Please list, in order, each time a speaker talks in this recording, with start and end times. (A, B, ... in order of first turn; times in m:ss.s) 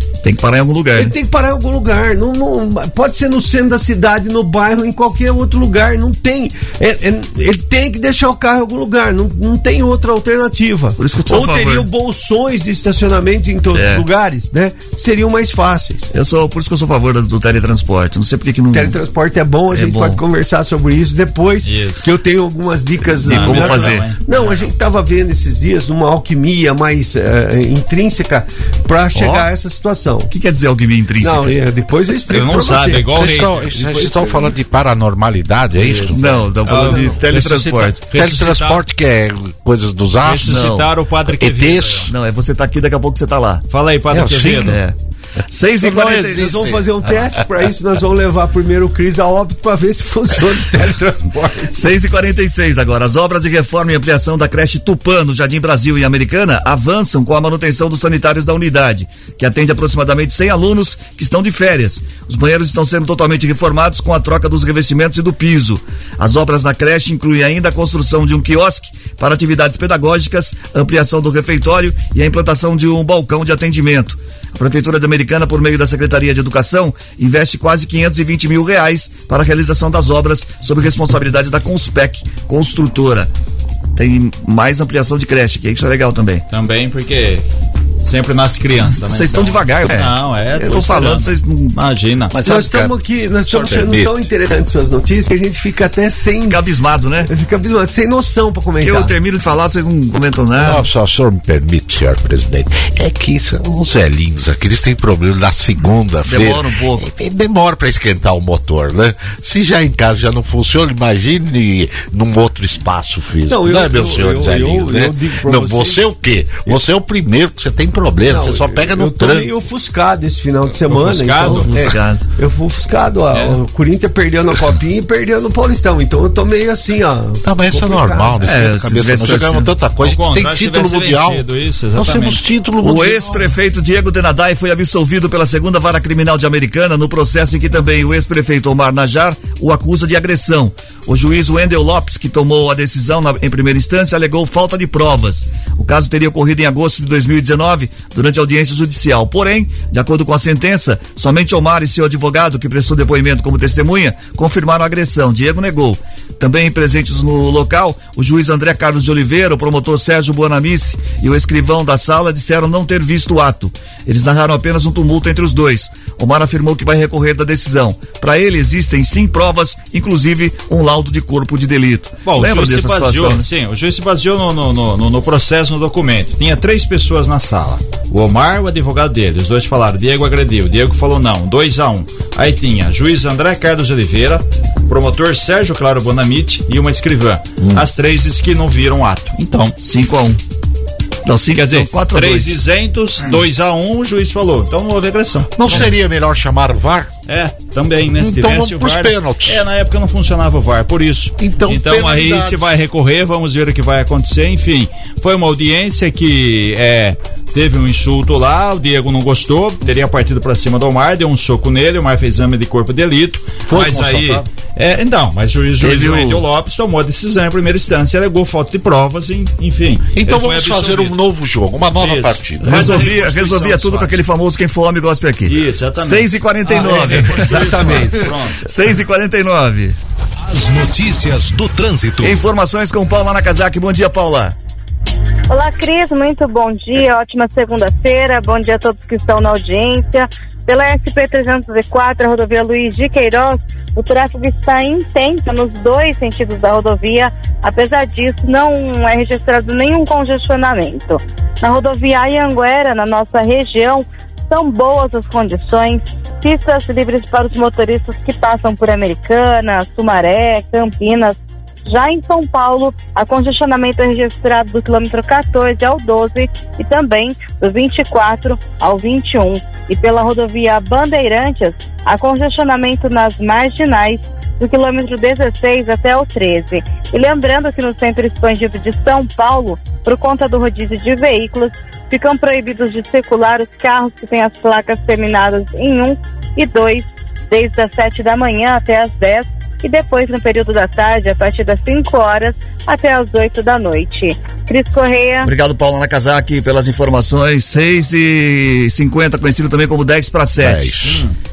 0:00.2-0:01.2 A
0:00.9-0:16.1 B
0:11.0-0:11.9 A
0:13.7-0:14.1 A
0:16.1-0:19.0 A
0:18.7-0:30.3 B
0:19.7-0:20.2 A
0:21.6-0:22.1 C
0:23.2-0:24.7 C
0:23.2-0:24.2 A
0:29.1-0:29.5 A
0:30.3-0:31.6 A
0:31.2-0:34.5 B
0:32.3-0:33.6 C
0:33.2-0:36.5 D
0:35.8-0:38.8 C
0:36.1-0:38.0 A
0:38.1-0:40.7 D
0:40.2-0:42.1 C
0:40.5-0:40.9 A
0:41.3-0:42.1 D
0:42.1-0:43.6 A
0:43.7-0:44.8 C
0:44.1-0:44.8 D
0:44.6-0:45.0 A
0:45.5-0:46.8 A
0:45.6-0:47.1 D
0:46.3-0:51.9 B
0:51.7-1:23.3 A
1:24.0-1:26.4 A
1:26.5-1:27.5 C
1:28.0-1:32.4 C
1:29.1-1:30.1 A
1:30.6-1:31.2 B
1:30.7-1:31.8 A
1:32.3-1:34.3 D
1:32.4-1:36.7 B
1:36.5-1:37.3 A
1:37.2-1:39.2 B
1:38.8-1:40.9 A
1:40.6-1:59.5 D
1:46.3-1:47.1 A
1:53.5-1:56.0 B
1:58.3-2:08.6 B
2:00.9-2:01.7 C
2:01.4-2:02.2 A
2:03.3-2:03.6 C
2:07.4-2:13.5 D
2:08.4-2:09.7 A
2:10.0-2:12.4 C
2:12.8-2:53.5 A
2:52.2-3:09.8 C
3:07.6-3:07.9 D
3:09.8-3:10.4 A
3:11.2-3:12.5 A
3:11.6-3:15.9 C
3:15.6-3:17.1 D
3:17.3-3:41.2 C
3:18.2-3:19.7 D
3:21.4-3:22.7 D
3:33.7-3:34.5 D
3:35.8-3:36.4 A
3:40.2-3:43.2 D
3:42.0-3:44.2 C
3:42.6-3:50.0 A
3:45.5-3:48.7 C
3:46.7-3:48.2 B
3:50.4-3:52.4 E
3:52.2-3:54.6 A
3:55.5-4:55.5 F
4:55.4-5:01.0 A
5:00.6-5:01.3 D
5:01.0-5:01.4 C